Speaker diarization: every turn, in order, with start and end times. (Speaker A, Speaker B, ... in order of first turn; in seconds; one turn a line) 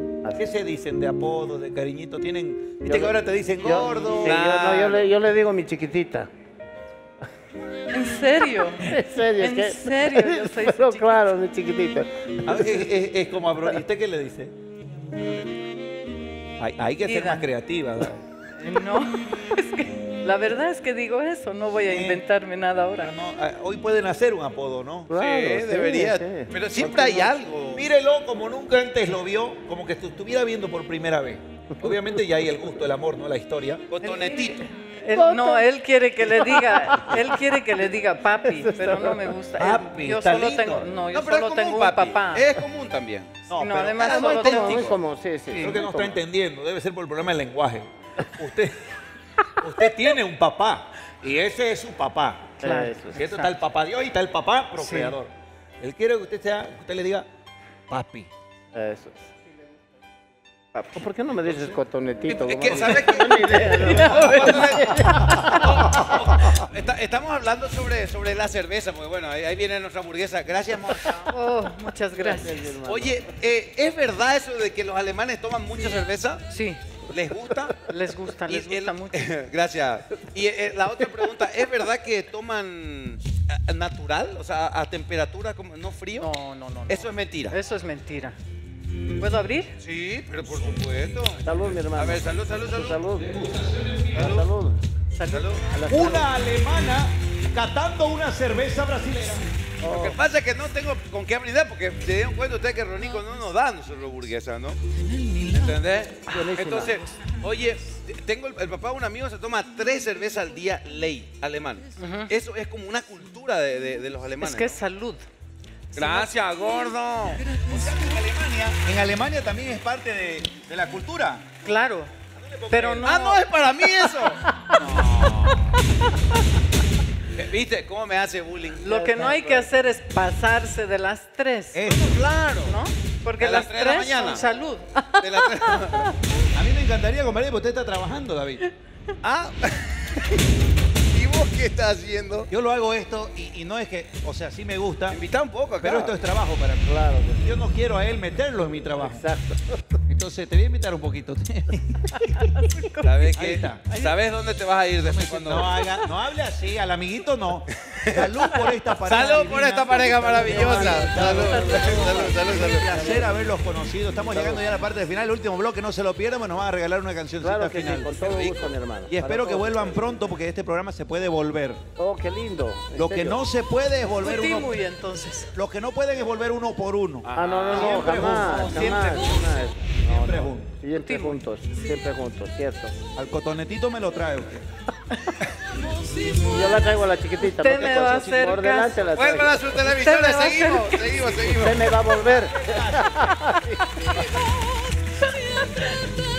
Speaker A: 0.3-4.4
Speaker B: 2.8-6.3
Speaker C: 4.2-5.0
Speaker D: 7.9-11.2
Speaker B: 8.8-12.9
Speaker A: 12.4-14.5
Speaker A: 16.6-18.2
Speaker D: 17.0-17.5
Speaker D: 18.6-23.1
Speaker A: 21.9-22.2
Speaker A: 23.0-25.1
Speaker B: 25.1-27.5
Speaker C: 25.1-27.9
Speaker A: 27.7-33.9
Speaker B: 31.8-32.2
Speaker C: 33.9-34.6
Speaker D: 34.0-42.5
Speaker B: 35.1-35.7
Speaker B: 36.2-37.4
Speaker B: 38.4-39.3
Speaker A: 39.6-40.9
Speaker C: 41.1-44.9
Speaker D: 43.5-44.9
Speaker B: 44.0-46.2
Speaker A: 45.6-48.8
Speaker A: 49.5-52.6
Speaker B: 52.6-53.2
Speaker D: 52.6-53.6
Speaker A: 53.1-57.3
Speaker D: 54.8-55.2
Speaker A: 57.9-58.3
Speaker B: 58.7-59.3
Speaker B: 60.9-66.5
Speaker C: 62.3-71.3
Speaker D: 63.8-65.9
Speaker D: 71.3-72.7
Speaker B: 72.1-73.3
Speaker C: 72.8-76.4
Speaker D: 76.5-76.8
Speaker C: 77.1-77.9
Speaker D: 77.8-79.3
Speaker C: 78.5-86.3
Speaker D: 86.2-88.4
Speaker C: 86.9-87.5
Speaker D: 89.2-89.8
Speaker C: 89.8-93.0
Speaker B: 91.4-93.3
Speaker A: 93.2-94.2
Speaker C: 94.1-94.4
Speaker B: 94.1-94.8
Speaker D: 95.1-96.3
Speaker C: 95.3-95.6
Speaker B: 95.7-96.3
Speaker A: 95.9-99.4
Speaker B: 99.8-100.2
Speaker C: 99.8-104.8
Speaker D: 105.1-105.6
Speaker C: 105.4-114.8
Speaker B: 106.2-107.0
Speaker D: 112.0-112.3
Speaker D: 114.4-115.2
Speaker D: 115.9-116.3
Speaker C: 116.0-117.4
Speaker A: 117.5-121.5
Speaker D: 121.6-122.1
Speaker A: 122.3-123.0
Speaker D: 122.7-123.4
Speaker C: 123.0-125.8
Speaker D: 125.0-126.2
Speaker C: 127.3-128.9
Speaker D: 128.8-131.8
Speaker B: 128.9-129.7
Speaker A: 131.7-132.2
Speaker C: 131.8-132.8
Speaker D: 132.6-136.2
Speaker C: 133.4-134.4
Speaker C: 135.2-136.1
Speaker A: 136.5-138.6
Speaker C: 139.2-140.4
Speaker C: 141.1-142.5
Speaker A: 142.5-145.2
Speaker C: 145.1-146.1
Speaker A: 145.8-149.2
Speaker B: 146.8-147.6
Speaker B: 149.0-150.0
Speaker A: 150.1-152.4
Speaker D: 152.2-154.2
Speaker C: 153.0-155.7
Speaker A: 153.3-153.8
Speaker A: 155.0-171.8
Speaker D: 155.7-156.1
Speaker C: 157.9-163.1
Speaker B: 160.1-163.3
Speaker D: 160.9-162.5
Speaker B: 164.3-164.7
Speaker B: 167.4-170.2
Speaker B: 172.0-173.4
Speaker A: 172.9-174.7
Speaker D: 174.2-175.5
Speaker A: 175.5-180.7
Speaker C: 177.3-179.0
Speaker B: 177.3-182.9
Speaker D: 181.0-181.4
Speaker A: 183.1-184.6
Speaker D: 186.0-186.7
Speaker B: 186.4-189.7
Speaker D: 187.4-189.1
Speaker C: 189.1-191.8
Speaker D: 189.7-191.3
Speaker B: 191.6-193.8
Speaker A: 192.0-193.8
Speaker D: 195.4-195.9